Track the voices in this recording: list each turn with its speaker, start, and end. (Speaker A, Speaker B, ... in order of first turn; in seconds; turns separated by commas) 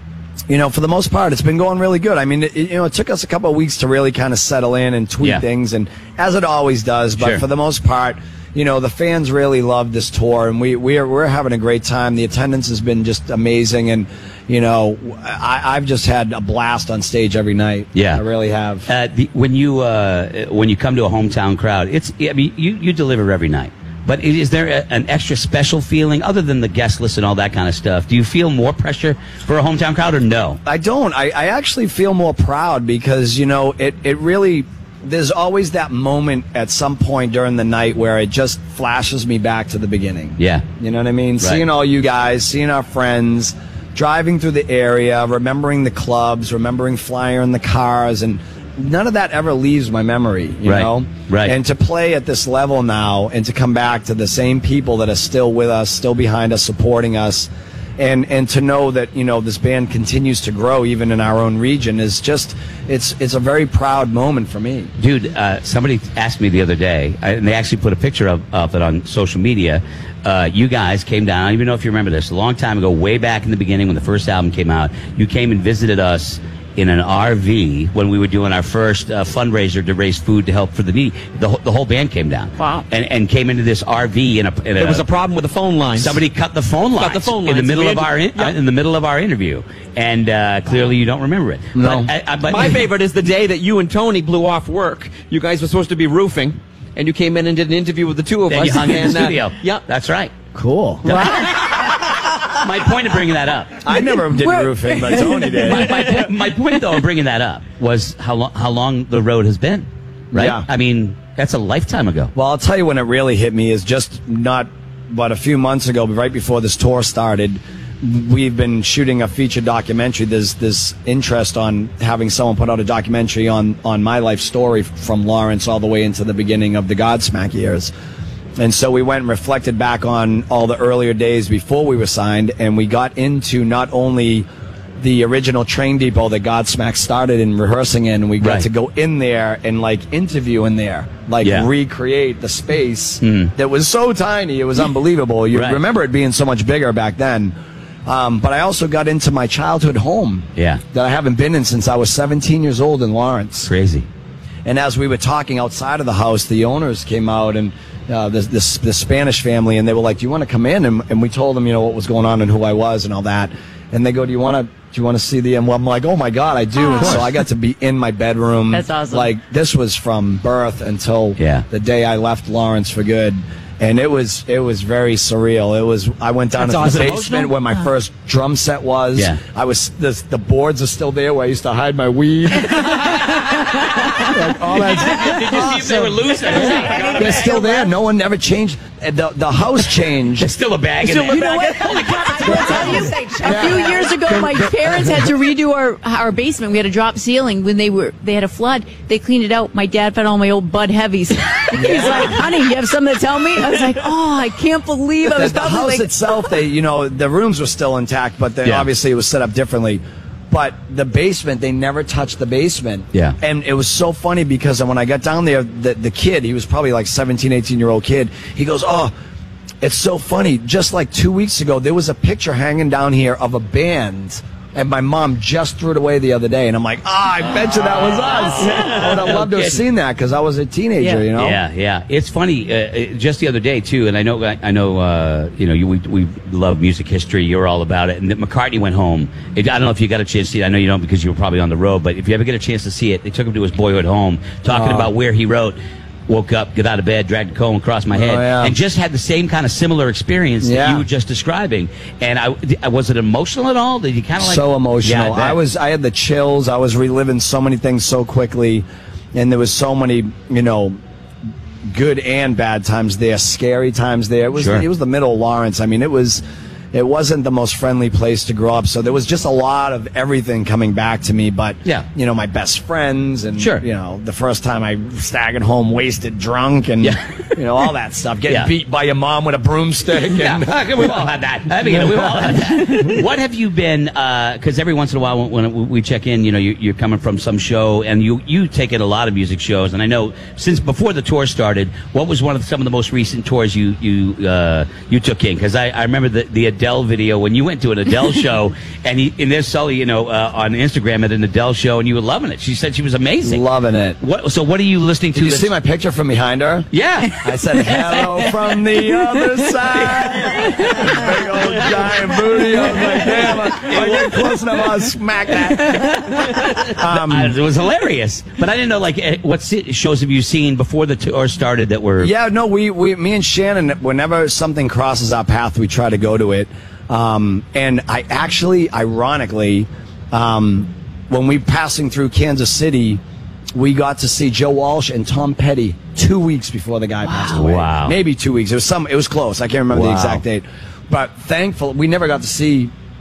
Speaker A: 0.5-18.9, Speaker B: 7.2-7.4, Speaker B: 17.9-18.2, Speaker B: 18.9-30.6, Speaker A: 30.7-64.9, Speaker B: 40.4-40.6, Speaker B: 50.6-51.6, Speaker B: 65.0-85.1, Speaker C: 82.6-82.8, Speaker C: 84.8-86.2, Speaker B: 86.0-92.8, Speaker C: 87.0-88.5, Speaker A: 91.8-92.1, Speaker C: 92.5-99.8, Speaker B: 98.5-100.3, Speaker A: 100.5-101.1, Speaker B: 101.0-103.8, Speaker D: 101.2-101.7, Speaker A: 103.8-106.1, Speaker D: 103.9-106.3, Speaker B: 105.6-112.3, Speaker A: 110.3-110.7, Speaker A: 112.3-127.9, Speaker A: 128.6-134.5, Speaker A: 135.0-147.5, Speaker B: 138.4-138.7, Speaker B: 141.4-141.7, Speaker B: 143.2-143.5, Speaker B: 145.5-145.8, Speaker A: 148.1-153.7, Speaker B: 150.6-150.8, Speaker B: 153.7-154.1, Speaker A: 154.7-183.2, Speaker D: 166.8-167.2, Speaker D: 168.7-169.3, Speaker B: 171.4-171.7, Speaker C: 176.6-177.5, Speaker A: 184.2-185.9, Speaker B: 185.0-187.6, Speaker D: 185.7-187.8, Speaker A: 187.2-190.5, Speaker B: 190.4-193.1, Speaker D: 191.1-206.1, Speaker C: 191.2-193.9, Speaker A: 192.5-194.7, Speaker A: 201.7-202.4, Speaker A: 205.2-219.1, Speaker B: 208.6-208.9, Speaker A: 219.8-231.6, Speaker B: 228.7-229.8, Speaker D: 231.0-231.2, Speaker B: 231.4-255.6, Speaker A: 244.7-245.1, Speaker A: 248.1-248.8, Speaker A: 250.6-251.1, Speaker A: 254.4-261.0, Speaker A: 261.9-281.2, Speaker B: 264.6-264.9, Speaker B: 273.6-273.8, Speaker B: 277.0-277.6, Speaker B: 278.5-278.7, Speaker B: 280.3-303.6, Speaker A: 281.9-282.6, Speaker A: 303.4-304.2, Speaker B: 304.2-305.7, Speaker A: 305.4-306.9, Speaker B: 306.9-308.3, Speaker A: 307.4-316.4, Speaker B: 309.9-315.1, Speaker B: 315.7-322.3, Speaker A: 317.0-317.6, Speaker A: 322.2-333.2, Speaker A: 333.7-342.9, Speaker B: 337.4-338.2, Speaker B: 339.9-340.4